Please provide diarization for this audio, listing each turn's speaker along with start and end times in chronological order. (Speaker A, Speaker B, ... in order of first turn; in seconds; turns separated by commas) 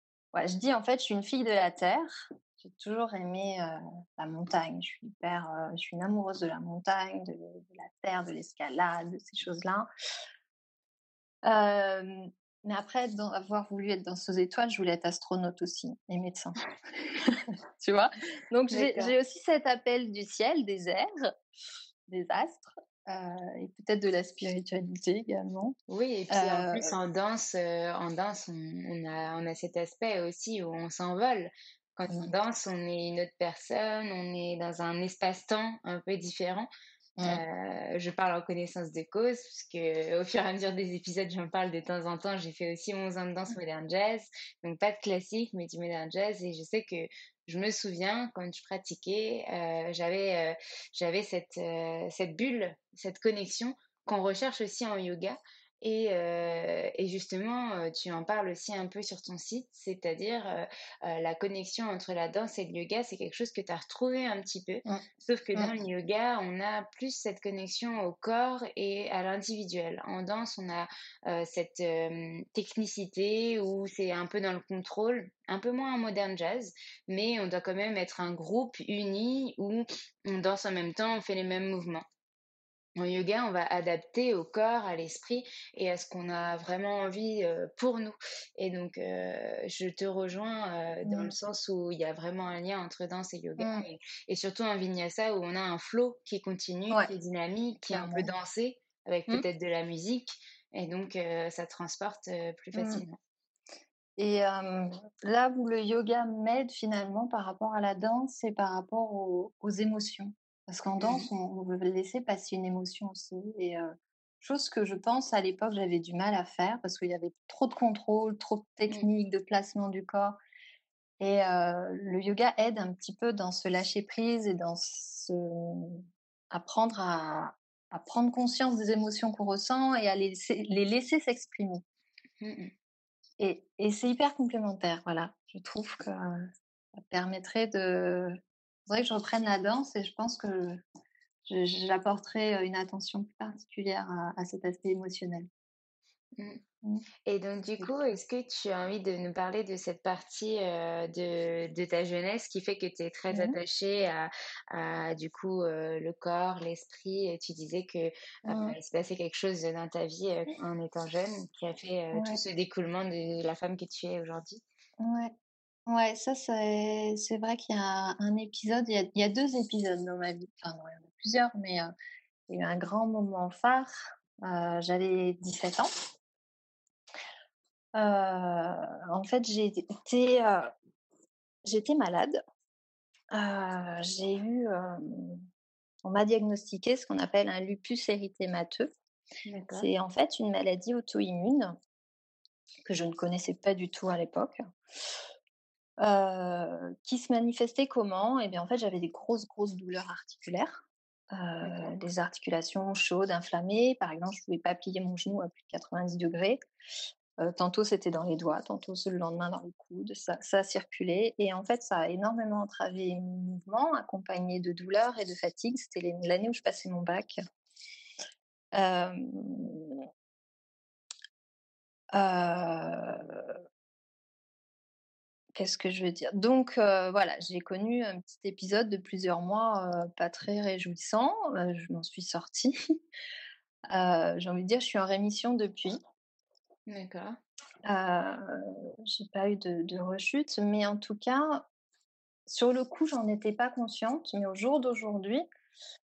Speaker A: 0.3-9.9, Speaker A: 11.4-16.6, Speaker A: 17.1-21.3, Speaker B: 18.7-19.1, Speaker A: 22.1-25.8, Speaker B: 25.9-36.7, Speaker A: 26.3-26.9, Speaker B: 37.2-82.0, Speaker A: 64.9-65.7, Speaker B: 83.0-103.2, Speaker A: 91.0-91.3, Speaker A: 93.6-93.9, Speaker A: 97.9-98.3, Speaker A: 102.7-103.0, Speaker A: 104.2-120.4, Speaker B: 111.0-111.3, Speaker A: 121.2-131.8, Speaker B: 132.4-132.7, Speaker A: 133.4-140.8, Speaker A: 141.4-145.5, Speaker B: 147.3-164.6, Speaker A: 147.8-148.2, Speaker A: 153.3-153.6, Speaker A: 158.5-158.8, Speaker A: 162.1-162.4, Speaker A: 165.0-165.3, Speaker A: 165.9-171.9, Speaker A: 172.5-175.9, Speaker A: 177.9-180.7, Speaker A: 181.6-182.4, Speaker A: 183.3-185.5, Speaker A: 186.0-188.9, Speaker B: 189.5-189.9, Speaker A: 189.7-191.8, Speaker A: 192.8-194.6, Speaker A: 196.0-206.6, Speaker A: 207.4-217.4, Speaker A: 218.7-220.0, Speaker A: 222.1-223.6, Speaker A: 225.5-233.0, Speaker A: 233.9-236.0, Speaker B: 236.9-237.4, Speaker A: 237.8-241.7, Speaker A: 242.5-245.5